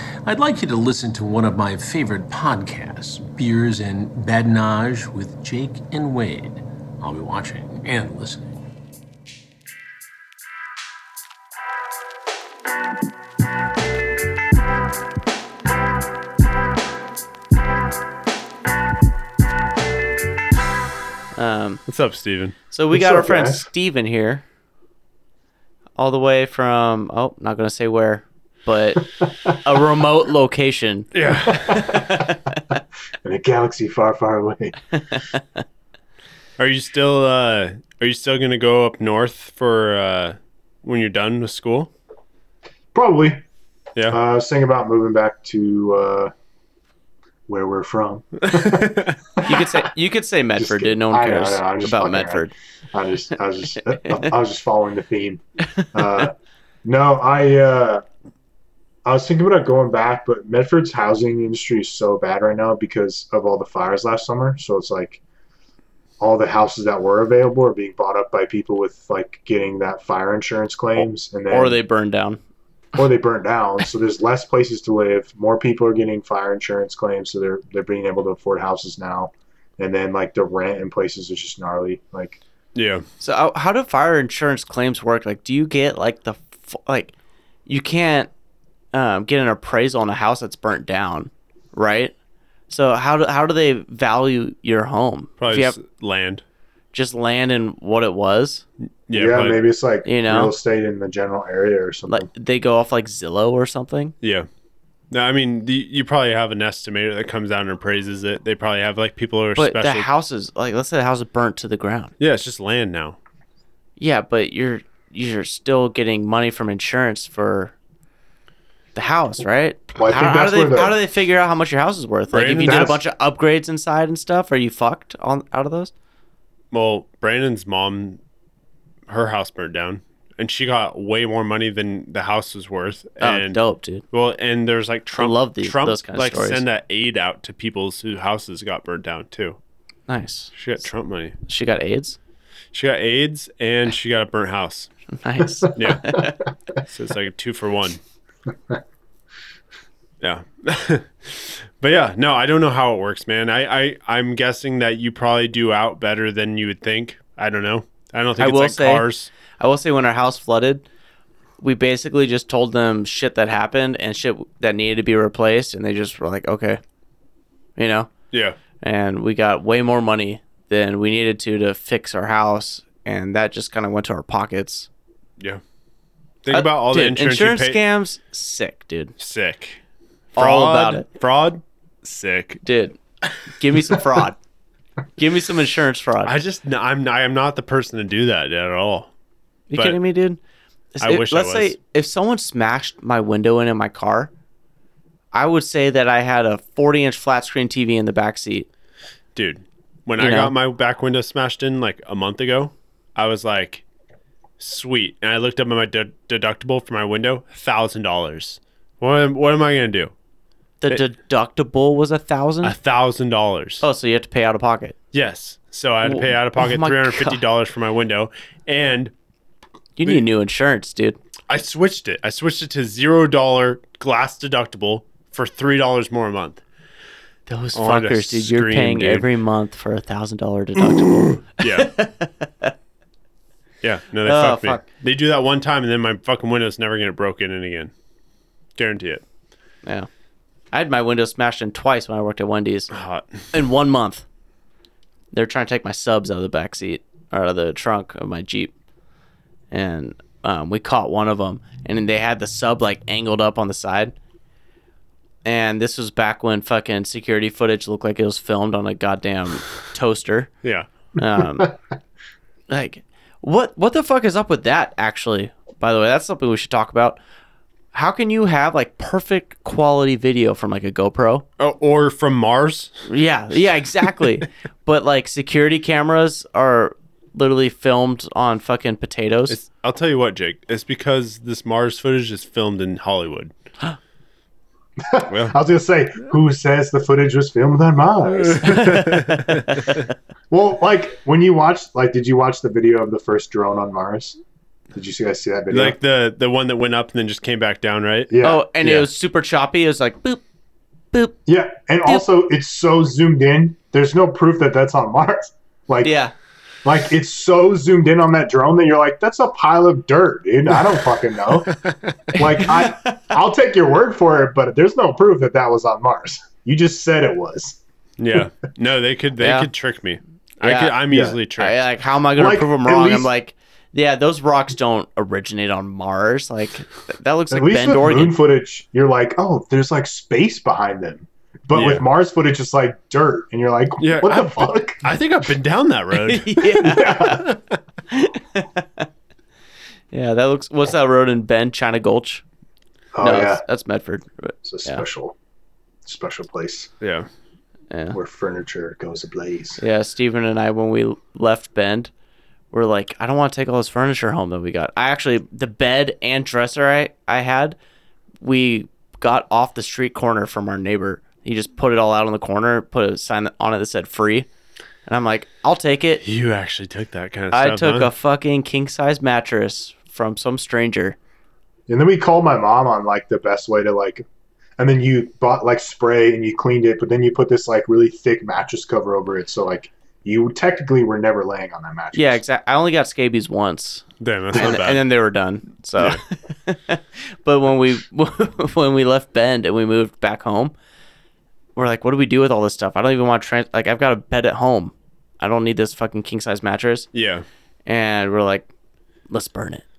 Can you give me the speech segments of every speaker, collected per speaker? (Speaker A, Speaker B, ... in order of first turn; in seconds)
Speaker A: 0.2-8.4
Speaker B: 21.4-21.8, 22.7-24.4, 25.9-32.6, 34.9-35.6, 49.4-52.5, 55.7-56.3, 71.5-72.4, 83.2-87.1, 87.7-88.3, 88.9-92.1, 92.7-95.8, 96.9-98.7, 100.0-100.5, 102.1-104.2, 109.6-112.1, 114.0-117.7, 118.9-125.9, 133.2-134.0, 135.1-136.6, 140.1-140.5, 141.5-142.2, 145.1-146.4, 158.4-159.1, 159.6-160.8, 161.6-166.8, 167.8-168.1, 168.8-174.9, 176.5-179.1, 180.4-181.1, 182.6-184.4, 185.2-186.3, 189.7-190.4, 190.9-194.3, 195.3-198.7, 200.2-200.5, 210.8-212.7, 213.8-215.0, 216.1-217.4, 220.0-221.2, 227.5-232.7, 234.2-234.8, 240.7-242.9, 243.5-244.2, 245.3-248.7, 249.7-254.1, 255.4-260.5, 261.2-261.7, 262.7-267.2, 267.9-271.4, 273.1-279.6, 288.6-290.0, 298.4-300.4, 301.1-301.4, 306.0-306.3, 312.4-313.2, 319.4-319.7, 320.6-321.0, 321.6-328.4, 336.2-337.5, 338.1-339.1, 340.1-342.4, 343.2-345.0, 347.9-348.2, 349.8-352.1, 352.7-357.8, 358.4-364.5, 365.1-366.2, 367.5-371.2, 382.1-390.7, 391.8-397.1, 397.9-398.7, 399.3-399.8
Speaker C: 21.9-22.6, 31.1-32.0, 36.6-41.9, 48.4-49.2, 82.8-83.0, 95.4-96.4, 99.1-99.6, 104.2-104.5, 105.1-110.1, 112.2-113.2, 122.3-123.0, 126.7-128.2, 129.1-133.6, 134.1-139.6, 140.6-141.4, 142.7-144.9, 145.8-146.2, 146.9-148.0, 150.2-159.3, 168.3-168.6, 176.4-177.8, 179.2-179.8, 180.3-182.6, 186.2-189.1, 189.7-190.0, 191.0-191.7, 199.3-203.8, 204.6-210.1, 212.6-213.8, 215.1-219.1, 221.5-226.6, 227.7-229.2, 230.8-231.9, 233.8-237.9, 238.8-239.2, 242.9-243.4, 271.6-273.1, 279.5-283.5, 285.3-285.6, 288.3-290.0, 295.7-299.1, 311.7-312.2, 318.2-321.8, 331.7-332.1, 334.0-337.8, 347.0-347.3, 366.2-368.1, 384.2-385.0, 397.1-397.4
Speaker D: 22.9-23.7, 31.7-32.2, 33.2-34.8, 42.9-43.4, 44.1-46.3, 47.5-49.7, 50.6-58.0, 59.0-65.2, 66.2-71.8, 72.9-82.4, 99.1-102.3, 120.0-121.0, 122.6-122.9, 285.0-289.1, 290.5-294.4, 294.9-296.0, 298.3-298.6, 301.4-306.1, 306.8-311.7, 312.3-317.8, 321.1-321.4, 322.4-323.3, 327.5-335.1, 336.8-337.4, 343.1-343.6, 344.6-345.4, 346.1-346.9, 348.1-349.8, 371.9-374.2, 374.8-382.4